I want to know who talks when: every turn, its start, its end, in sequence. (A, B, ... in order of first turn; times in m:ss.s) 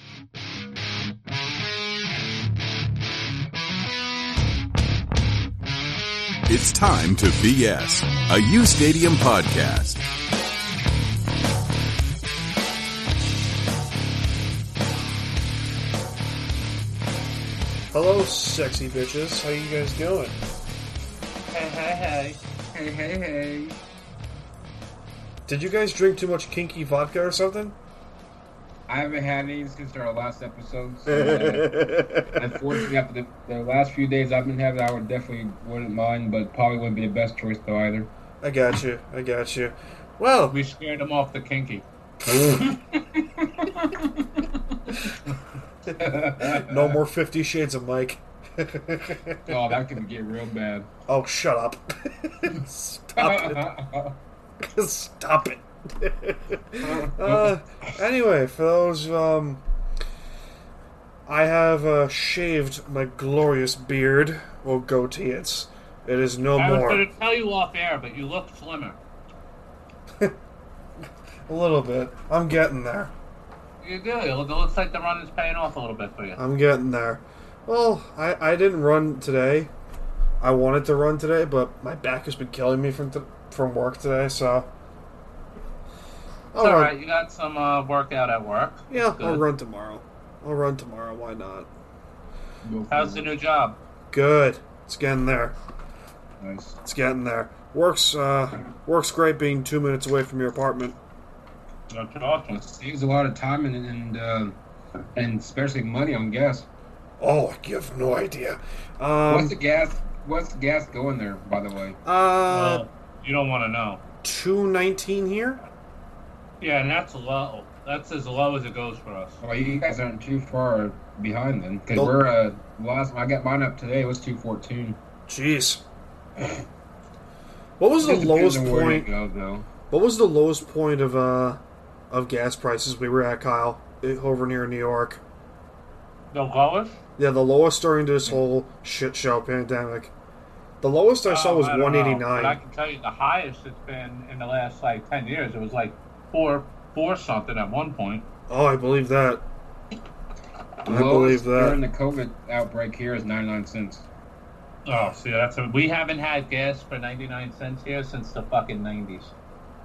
0:06.5-0:10.0 A
0:17.9-0:20.4 B
0:21.5-0:22.4 C
0:22.7-0:23.8 D
0:25.5-0:27.8 B
0:28.9-0:38.1 D
0:31.1-0:32.2 B
0:38.4-0:40.6 B
0:40.5-0:41.8 C
0:42.3-0:42.6 B
0:42.5-0:45.1 D
0:45.9-0:49.6 B
0:46.0-0:47.0 D
0:49.5-0:50.9 D
0:51.1-0:53.6 B
0:53.2-0:54.2 D
0:54.6-0:59.6 B
0:56.8-0:57.6 D
1:01.2-1:07.0 B
1:06.6-1:09.0 C
1:11.5-1:13.1 B
1:13.8-1:16.4 C
1:16.4-1:19.7 B
1:20.4-1:24.7 B
1:26.5-1:26.9 B
1:26.6-1:29.4 C
1:28.9-1:31.7 B
1:32.6-1:33.3 D
1:32.9-1:33.8 C
1:34.1-1:35.6 B
1:36.4-1:36.8 D
1:36.8-1:41.0 B
1:41.9-1:42.6 C
1:42.5-1:44.5 D
1:45.2-1:46.7 D
1:47.2-1:49.5 B
1:49.3-1:52.0 D
1:52.0-1:52.8 B
1:52.5-1:54.0 C
1:54.2-1:55.6 B
1:56.6-1:59.4 C
1:59.4-2:05.0 D
2:05.3-2:05.8 B
2:07.8-2:09.1 B
2:08.0-2:09.6 D
2:09.9-2:15.2 B
2:16.3-2:17.0 C
2:17.2-2:20.1 B
2:20.8-2:22.6 B
2:21.2-2:28.2 C
2:28.5-2:29.4 B
2:30.8-2:31.8 B
2:30.8-2:34.1 D
2:34.8-2:39.3 C